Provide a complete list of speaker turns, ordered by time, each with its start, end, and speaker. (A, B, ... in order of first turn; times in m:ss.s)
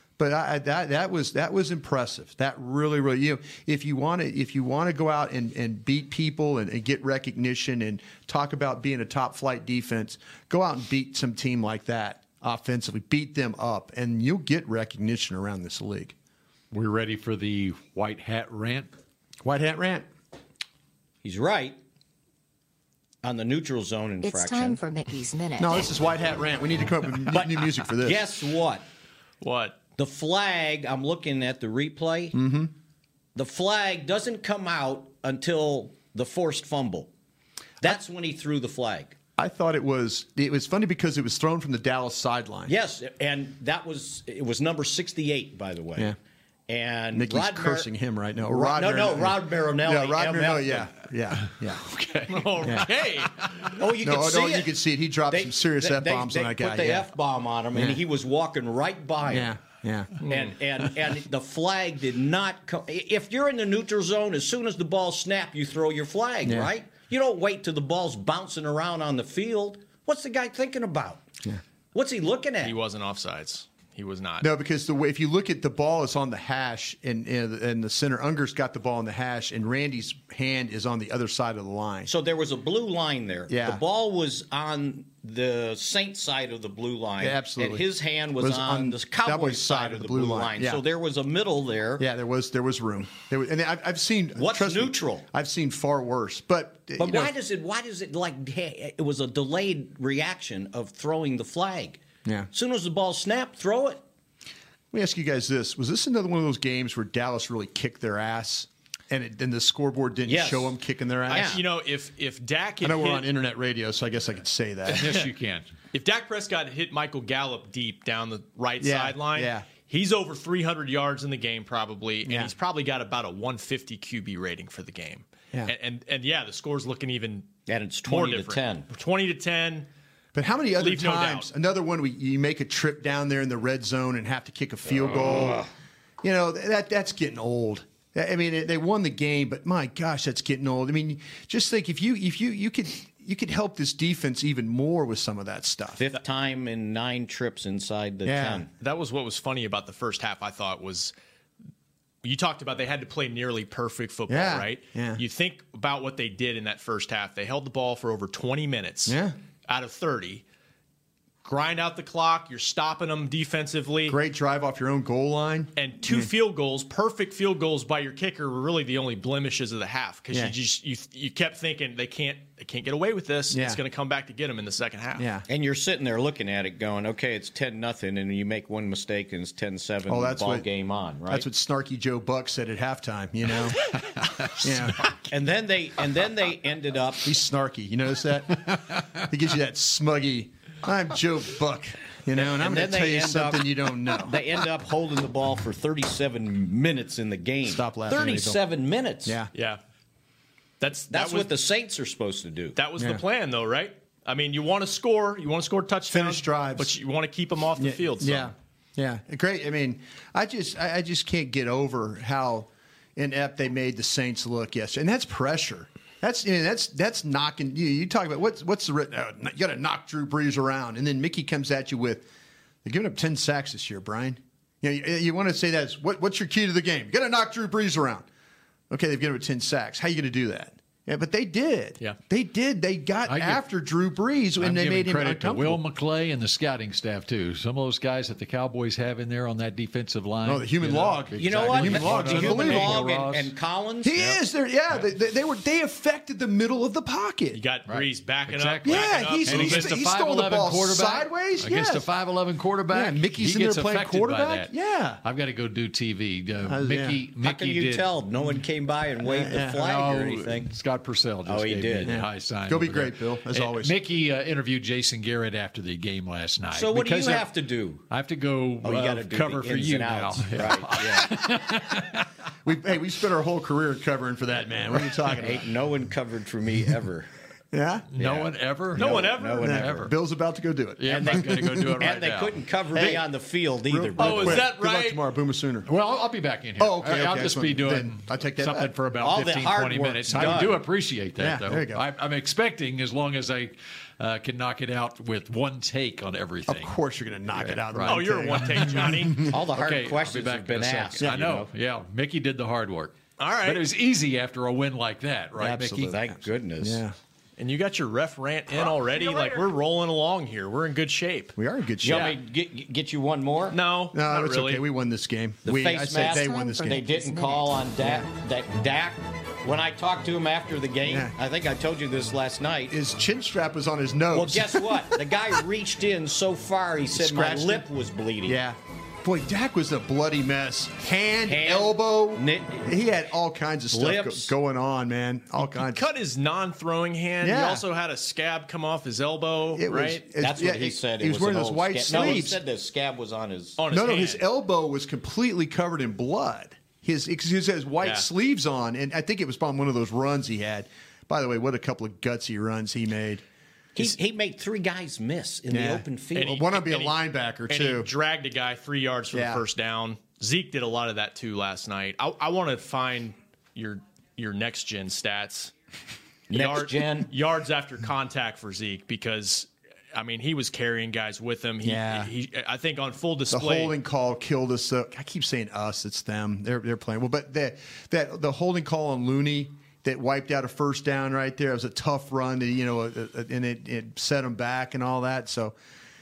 0:00.2-0:16.1 A
0:16.7-0:18.9 B
0:19.4-0:20.1 A
0:21.2-0:21.8 C
0:23.2-0:24.8 C
0:24.2-0:25.8 D
0:25.6-0:28.3 A
0:27.3-0:28.8 C
0:29.4-0:29.8 E
0:30.0-0:32.4 C
0:32.3-0:32.7 A
0:33.3-0:37.1 C
0:37.8-0:39.2 C
0:39.4-0:42.7 A
0:42.6-0:46.2 C
0:46.7-0:47.9 C
0:47.1-0:51.8 A
0:48.4-0:50.9 C
0:52.3-0:53.4 E
0:52.6-0:52.9 A
0:53.7-0:54.7 C
0:54.0-0:57.1 A
0:55.3-0:59.5 C
0:57.7-0:58.0 A
0:59.2-1:00.1 A
1:00.2-1:11.2 C
1:06.4-1:06.7 A
1:11.9-1:12.8 C
1:12.6-1:14.5 E
1:14.4-1:22.1 A
1:22.0-1:32.0 C
1:23.5-1:23.8 A
1:27.2-1:30.8 A
1:32.0-1:37.3 A
1:34.3-1:35.2 C
1:37.0-1:42.0 C
1:42.2-1:42.5 A
1:42.5-1:44.0 C
1:44.9-1:51.6 A
1:50.2-1:50.8 C
1:51.3-1:51.6 C
1:51.3-1:53.3 E
1:52.8-1:55.1 A
1:54.9-1:55.2 E
1:54.9-1:55.7 B
1:55.9-2:07.5 E
1:58.8-1:59.6 A
2:02.2-2:02.5 A
2:07.7-2:08.9 C
2:08.1-2:09.9 E
2:10.3-2:15.7 A
2:10.8-2:11.5 E
2:16.2-2:26.0 A
2:26.0-2:28.7 C
2:28.2-2:28.6 A
2:28.8-2:31.1 E
2:32.2-2:40.4 E
2:34.3-2:35.2 A
2:39.1-2:39.4 A
2:41.4-2:44.2 E
2:44.1-2:46.3 A
2:45.8-2:55.2 E
2:53.5-2:53.8 A
2:55.2-2:55.4 A
2:55.5-3:01.5 C
3:00.1-3:00.7 A
3:01.3-3:03.8 A
3:04.6-3:05.1 A
3:05.3-3:07.3 C
3:07.2-3:14.4 A
3:12.3-3:19.4 C
3:17.6-3:18.6 A
3:19.2-3:19.5 A
3:19.5-3:19.8 E
3:20.8-3:21.6 E
3:21.1-3:22.8 C
3:22.8-3:28.5 E
3:26.1-3:27.0 A
3:27.8-3:42.3 A
3:42.8-3:48.2 A
3:48.9-3:55.8 A
3:53.2-3:53.6 B
3:54.6-4:03.5 B
4:00.4-4:03.0 A
4:01.4-4:04.4 C
4:04.0-4:07.6 A
4:07.5-4:09.9 E
4:07.9-4:14.7 B
4:08.8-4:12.1 A
4:12.9-4:15.2 A
4:15.2-4:18.1 B
4:16.6-4:17.2 A
4:17.4-4:20.7 C
4:19.3-4:19.8 A
4:19.6-4:27.5 B
4:21.4-4:22.1 C
4:22.0-4:23.9 A
4:26.7-4:28.0 C
4:28.1-4:32.2 B
4:28.8-4:31.4 C
4:32.6-4:35.6 A
4:35.4-4:37.3 C
4:37.7-4:38.1 A
4:38.1-4:40.1 B
4:38.2-4:40.1 C
4:39.0-4:39.6 E
4:39.0-4:42.0 A
4:41.0-4:42.6 B
4:41.0-4:44.6 C
4:42.9-4:43.2 A
4:43.8-4:45.9 A
4:44.2-4:45.2 E
4:44.2-4:44.6 B
4:45.9-4:56.9 B
4:46.8-4:48.9 A
4:49.2-4:50.8 C
4:50.3-4:50.7 A
4:51.4-4:52.0 A
4:56.7-4:59.5 A
4:57.6-5:06.1 B
4:58.0-4:59.5 E
4:59.5-5:01.7 C
5:01.2-5:01.4 A
5:03.4-5:03.8 E
5:05.6-5:07.2 A
5:05.9-5:07.0 C
5:07.6-5:11.6 E
5:11.6-5:12.4 A
5:12.0-5:13.8 C
5:12.1-5:12.4 E
5:13.7-5:14.8 E
5:14.1-5:17.2 A
5:15.6-5:23.0 C
5:16.5-5:17.4 D
5:18.0-5:18.2 A
5:21.0-5:21.3 A
5:22.9-5:25.3 A
5:24.3-5:28.6 C
5:27.1-5:27.9 A
5:28.4-5:36.1 A
5:31.4-5:33.0 C
5:33.9-5:34.5 C
5:35.6-5:40.2 E
5:37.4-5:37.8 A
5:39.7-5:42.6 A
5:40.4-5:43.8 C
5:43.8-5:44.4 E
5:43.9-5:53.4 A
5:53.9-5:56.6 C
5:55.7-5:58.1 A
5:56.3-5:57.2 E
5:57.7-6:05.7 E
5:59.3-5:59.6 A
6:06.5-6:07.3 C
6:06.5-6:13.9 E
6:11.8-6:12.3 A
6:13.5-6:25.7 A